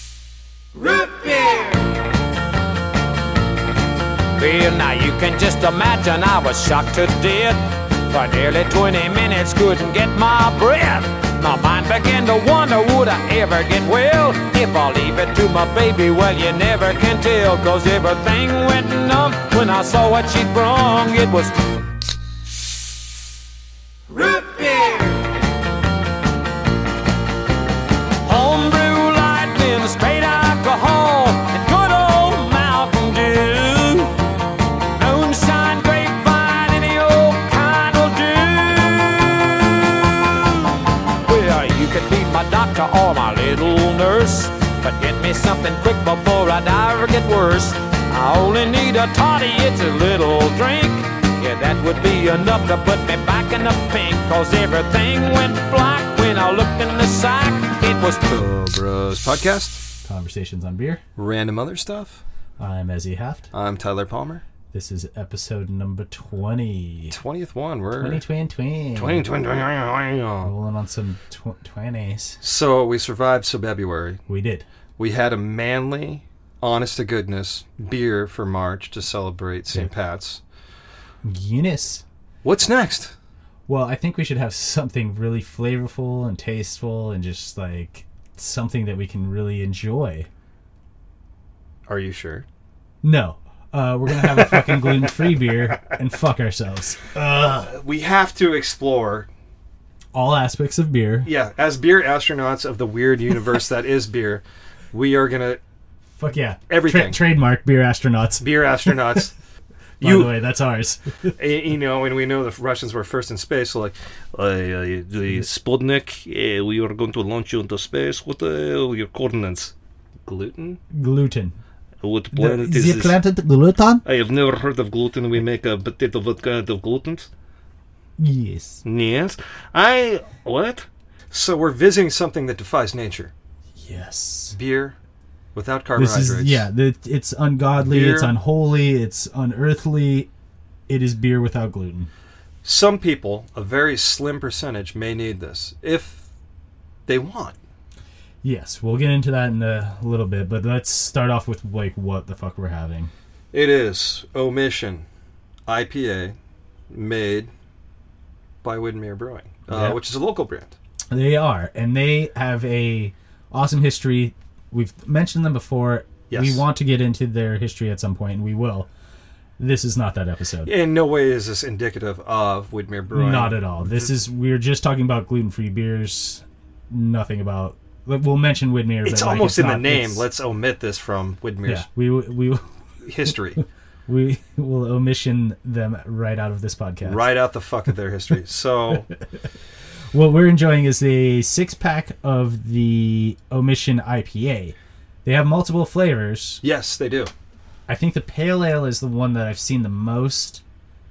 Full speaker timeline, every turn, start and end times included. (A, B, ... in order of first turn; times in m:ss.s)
0:00.8-0:01.8 A
0:04.4-0:21.6 A
0:24.1-0:25.2 A
0:28.2-0:34.2 A
0:34.9-0:58.3 A
0:58.3-0:59.8 B
1:00.0-1:01.0 C
1:01.2-1:02.2 B
1:02.6-1:03.5 C
1:03.5-1:04.4 B
1:04.7-1:07.2 C
1:07.1-1:08.2 B
1:08.0-1:09.2 C
1:09.0-1:10.5 B
1:10.4-1:12.4 C
1:12.4-1:14.2 B
1:14.3-1:14.6 C
1:15.0-1:20.4 B
1:21.2-1:22.0 C
1:22.4-1:23.1 B
1:23.7-1:30.3 C
1:31.9-1:32.4 B
1:33.0-1:37.7 C
1:34.1-1:35.8 B
1:37.2-1:39.3 B
1:40.1-1:41.3 C
1:41.2-1:45.6 B
1:46.2-1:49.3 C
1:46.7-1:47.2 B
1:48.4-1:49.3 B
1:50.0-1:50.4 B
1:50.0-1:51.3 C
1:51.4-1:59.7 B
2:00.2-2:00.8 B
2:00.9-2:01.6 C
2:02.0-2:03.2 B
2:02.3-2:04.0 C
2:04.0-2:07.3 B
2:08.2-2:08.8 C
2:08.8-2:13.3 B
2:13.8-2:14.6 C
2:14.5-2:15.0 B
2:15.5-2:16.6 B
2:16.0-2:20.3 C
2:17.8-2:18.3 B
2:20.9-2:22.1 C
2:22.6-2:26.2 B
2:27.0-2:27.6 B
2:28.4-2:33.1 C
2:33.5-2:35.0 B
2:35.7-2:36.4 B
2:36.9-2:37.5 B
2:38.6-2:40.7 B
2:39.7-2:40.0 C
2:41.1-2:48.9 C
2:46.3-2:46.6 B
2:49.6-2:50.7 C
2:50.6-2:54.1 B
2:53.1-3:00.2 C
2:59.0-3:01.8 B
3:01.6-3:02.7 C
3:03.0-3:03.6 B
3:03.6-3:07.3 C
3:07.0-3:09.0 B
3:10.1-3:16.6 C
3:16.6-3:17.3 B
3:17.9-3:20.6 C